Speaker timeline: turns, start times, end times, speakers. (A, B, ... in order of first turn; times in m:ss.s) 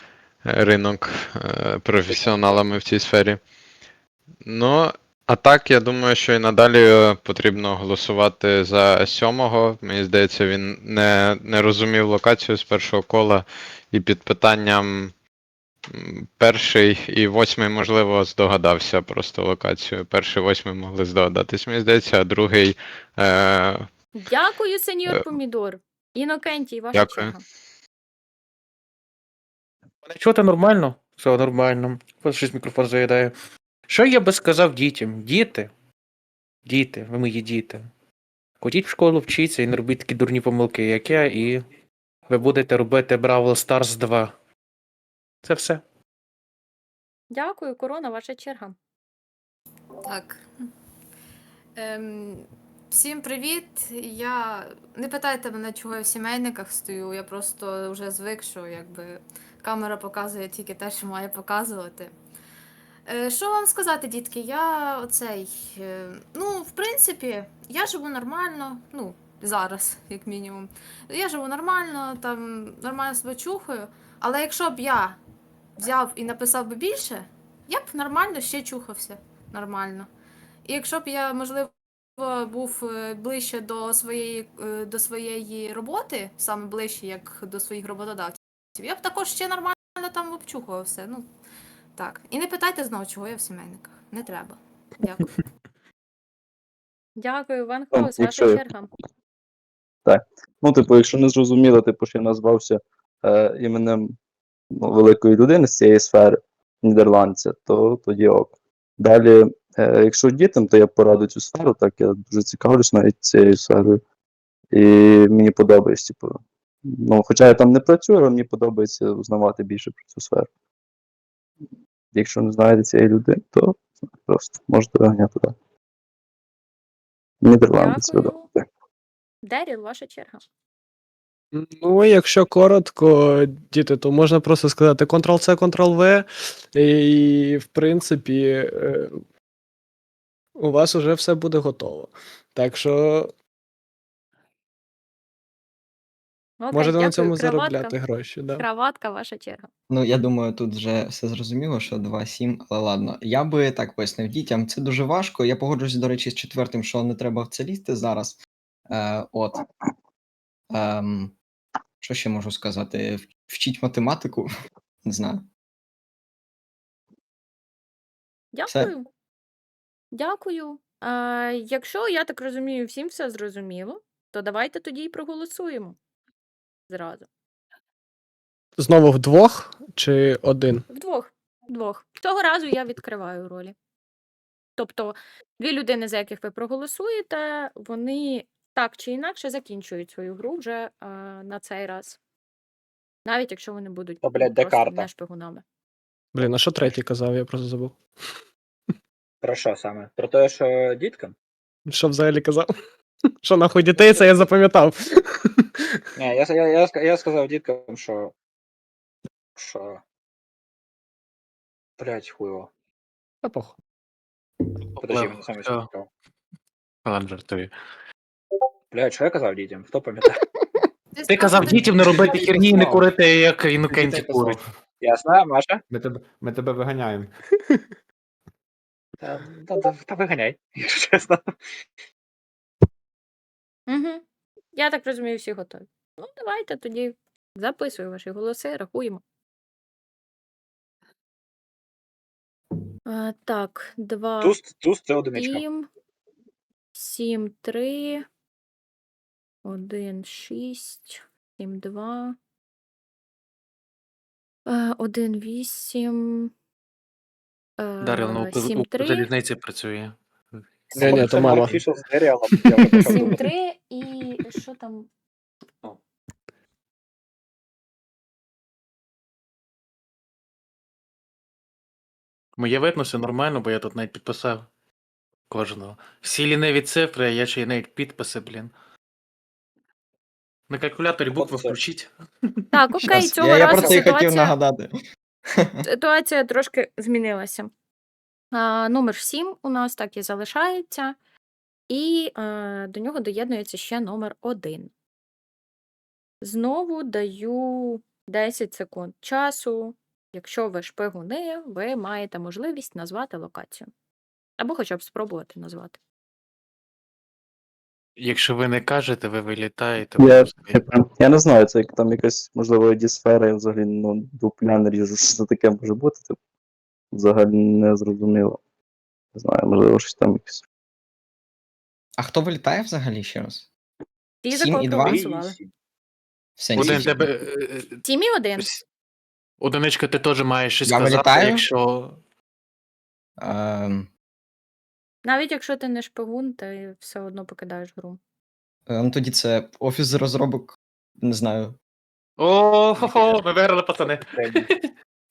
0:00.4-0:03.4 A
0:04.4-0:15.1 A
0:15.9-0:23.9 A
0:24.2-0:27.4 B
0:26.9-0:27.3 A
0:30.0-0:33.3 C
0:33.9-0:35.7 C
0:36.6-0:37.9 C
0:38.6-0:41.6 C
0:42.3-0:44.3 C
0:45.4-0:45.8 C
0:47.3-0:48.8 B
0:50.0-0:50.5 D
0:51.8-1:02.1 D
1:03.1-1:15.2 D
1:15.8-1:20.1 D
1:20.6-1:31.3 D
1:32.0-1:35.3 D
1:37.2-1:38.9 B
1:37.9-1:38.6 E
1:40.0-1:44.1 E
1:44.7-1:54.0 E
1:54.7-2:00.5 E
2:02.1-2:05.5 E
2:07.4-2:08.4 E
2:07.7-2:08.5 B
2:09.4-2:10.4 B
2:11.5-2:19.2 F
2:20.6-2:23.3 F
2:26.6-2:28.0 B
2:26.7-2:28.6 F
2:28.6-2:29.7 B
2:29.9-2:38.4 G
2:38.9-2:39.6 G
2:40.7-2:41.3 G
2:42.0-2:44.5 G
2:45.0-2:45.4 G
2:48.5-2:49.1 B
2:50.1-2:56.0 B
2:56.9-2:57.3 B
2:58.8-3:00.8 F
3:00.9-3:03.7 B
3:04.8-3:12.2 B
3:13.2-3:15.6 B
3:14.2-3:15.1 H
3:16.3-3:18.0 F
3:19.4-3:21.3 H
3:21.9-3:22.7 F
3:23.4-3:25.5 F
3:26.2-3:28.3 H
3:29.6-3:30.0 H
3:32.0-3:32.7 H
3:33.4-3:33.8 F
3:35.0-3:35.9 C
3:35.0-3:36.1 H
3:37.0-3:37.7 C
3:38.9-3:40.4 H
3:41.1-3:42.4 D
3:41.3-3:44.6 C
3:42.2-3:43.1 I
3:43.9-3:44.7 I
3:45.0-3:45.8 H
3:45.9-3:47.3 I
3:49.2-3:51.4 H
3:53.9-3:54.2 B
3:54.7-3:59.2 B
4:03.1-4:04.6 B
4:04.4-4:05.6 H
4:05.3-4:05.9 B
4:06.9-4:08.2 B
4:09.6-4:12.4 B
4:14.7-4:16.5 B
4:17.8-4:19.3 B
4:18.0-4:20.2 C
4:20.9-4:21.8 C
4:21.0-4:21.7 F
4:21.0-4:23.4 H
4:23.0-4:25.1 B
4:32.6-4:34.7 C
4:35.5-4:38.7 C
4:40.7-4:42.6 C
4:41.3-4:41.8 H
4:42.7-4:44.5 B
4:43.1-4:44.9 G
4:45.5-4:45.8 G
4:45.8-4:47.7 B
4:48.5-4:51.1 B
4:51.9-4:54.9 B
4:56.4-5:03.9 B
5:04.6-5:06.0 B
5:08.2-5:10.8 C
5:10.2-5:16.4 E
5:17.1-5:18.6 E
5:19.3-5:20.6 E
5:22.2-5:23.7 G
5:24.4-5:25.6 B
5:24.5-5:25.2 G
5:25.0-5:25.7 H
5:26.6-5:27.3 G
5:26.7-5:28.0 C
5:28.0-5:28.7 B
5:29.6-5:32.2 C
5:30.8-5:31.6 G
5:33.4-5:34.1 G
5:35.2-5:38.2 B
5:38.9-5:41.8 G
5:42.4-5:44.9 C
5:43.0-5:43.4 H
5:44.3-5:44.6 H